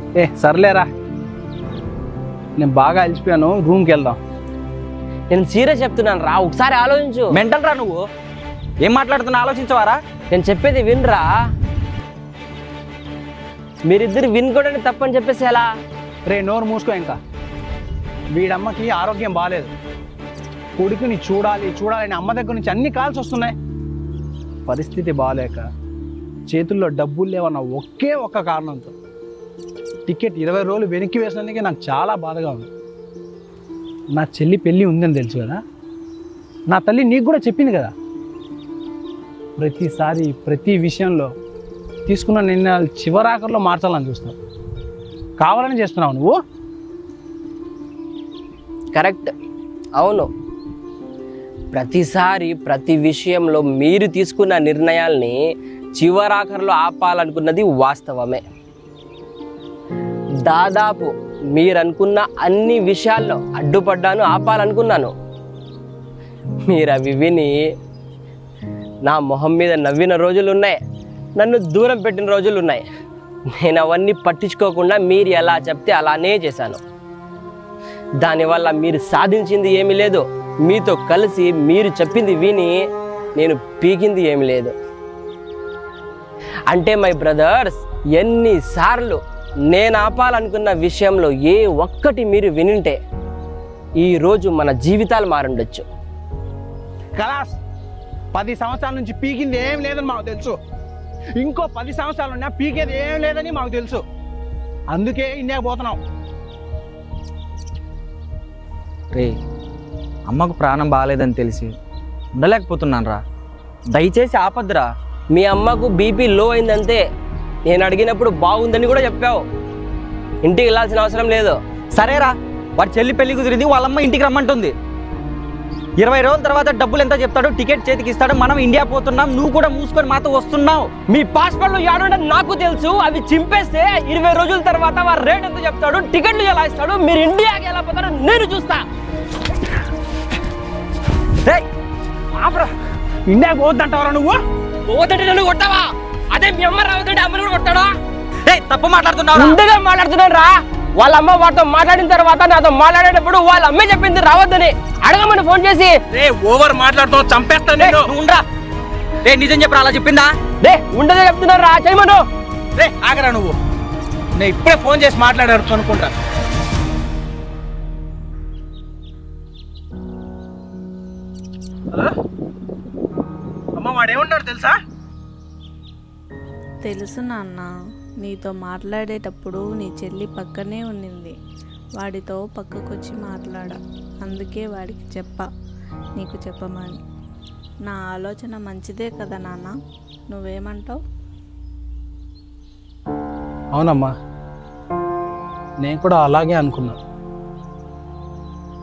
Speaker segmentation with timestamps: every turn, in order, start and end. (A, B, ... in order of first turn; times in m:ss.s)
0:00.2-0:00.9 A
0:02.6-0:04.2 A
0:05.3-0:07.3 B
0:07.3-0:08.0 C
0:08.8-0:10.0 C
0:10.3-0:11.3 B
0:13.9-0:15.7 B
0:16.2-0:17.2 A
0:18.3-0:19.7 A
0:20.8-0:23.5 A
0:24.7-0:25.6 A
0:26.5-0:28.9 A
0:30.1-0:32.7 A
0:34.2-0:35.6 A
0:36.7-0:37.9 A
0:39.6-0:41.3 A
0:42.0-0:44.4 A
0:45.4-0:46.4 A
0:48.9-0:49.3 B
0:50.0-0:50.3 B
0:51.7-0:55.4 B
0:56.0-0:58.4 B
1:00.4-1:05.1 B
1:06.7-1:07.5 B
1:09.0-1:10.8 B
1:11.4-1:12.8 B
1:13.6-1:16.8 B
1:18.2-1:22.7 B
1:23.4-1:24.7 B
1:26.7-1:33.0 B
1:34.0-1:35.9 B
1:37.2-1:37.6 A
1:38.3-1:40.6 A
1:41.4-1:44.0 A
1:44.9-1:46.0 A
1:50.3-1:51.7 C
1:52.4-1:53.2 C
1:53.9-1:54.9 C
1:55.3-1:57.0 B
1:57.7-1:59.4 B
2:00.4-2:01.6 B
2:02.0-2:04.7 C
2:06.0-2:10.9 C
2:11.1-2:18.8 B
2:23.3-2:24.4 A
2:24.8-2:27.9 B
2:28.5-2:29.6 C
2:29.3-2:36.0 B
2:36.1-2:38.1 A
2:37.8-2:38.4 C
2:39.2-2:40.3 C
2:40.6-2:42.2 B
2:42.8-2:43.6 A
2:44.4-2:46.1 A
2:53.8-2:54.8 A
2:56.8-2:57.7 D
2:58.2-3:01.3 D
3:02.0-3:05.5 D
3:06.2-3:07.0 D
3:07.8-3:09.7 D
3:10.3-3:11.0 D
3:13.7-3:14.1 A
3:15.8-3:17.0 A